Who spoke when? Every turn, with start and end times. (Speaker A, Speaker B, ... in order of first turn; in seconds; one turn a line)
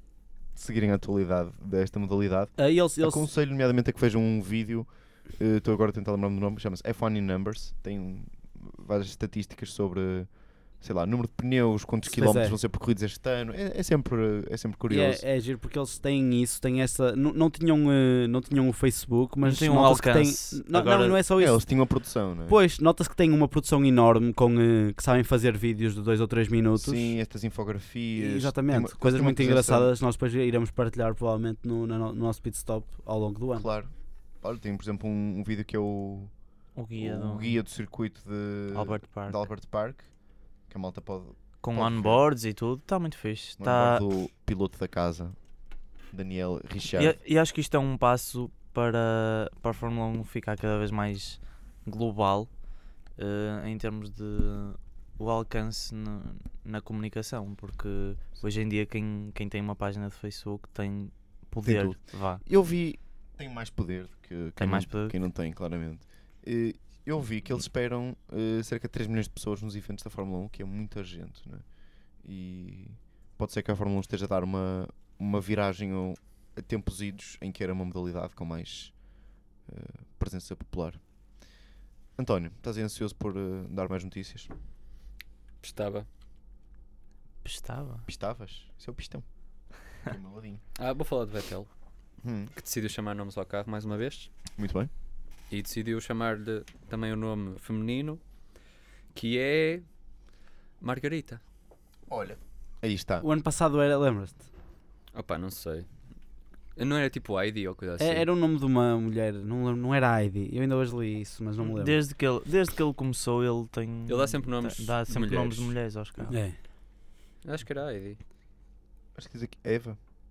Speaker A: 0.6-15.2
Speaker B: 2.6-3.3
Speaker B: 12.1-12.6
Speaker B: 14.9-21.6
Speaker C: 19.4-21.2
Speaker A: 21.4-22.6
Speaker B: 22.5-27.2
Speaker A: 26.8-29.9
Speaker B: 28.2-33.7
Speaker A: 33.5-36.3
Speaker C: 36.8-37.6
Speaker A: 37.0-40.1
Speaker C: 38.7-39.4
Speaker A: 40.7-42.2
Speaker C: 41.6-44.0
Speaker A: 43.6-45.4
Speaker A: 46.1-47.2
Speaker C: 47.0-52.5
Speaker C: 53.2-62.4
Speaker A: 61.6-71.7
Speaker C: 64.6-65.2
Speaker A: 72.2-79.0
Speaker A: 79.7-81.0
Speaker A: 82.2-84.5
Speaker D: 85.6-86.1
Speaker C: 87.4-88.0
Speaker A: 88.1-89.3
Speaker A: 89.9-90.6
Speaker D: 90.8-91.7
Speaker A: 92.2-92.5
Speaker D: 92.6-94.3
Speaker A: 94.6-94.9
Speaker D: 95.5-98.2
Speaker D: 99.1-99.9
Speaker D: 100.8-101.4
Speaker A: 102.1-103.3
Speaker B: 103.2-104.5
Speaker D: 105.1-105.9
Speaker D: 106.8-108.3
Speaker B: 108.0-112.0
Speaker C: 111.6-116.4
Speaker D: 114.1-115.7
Speaker B: 116.3-116.6
Speaker D: 117.4-118.2
Speaker A: 119.2-120.0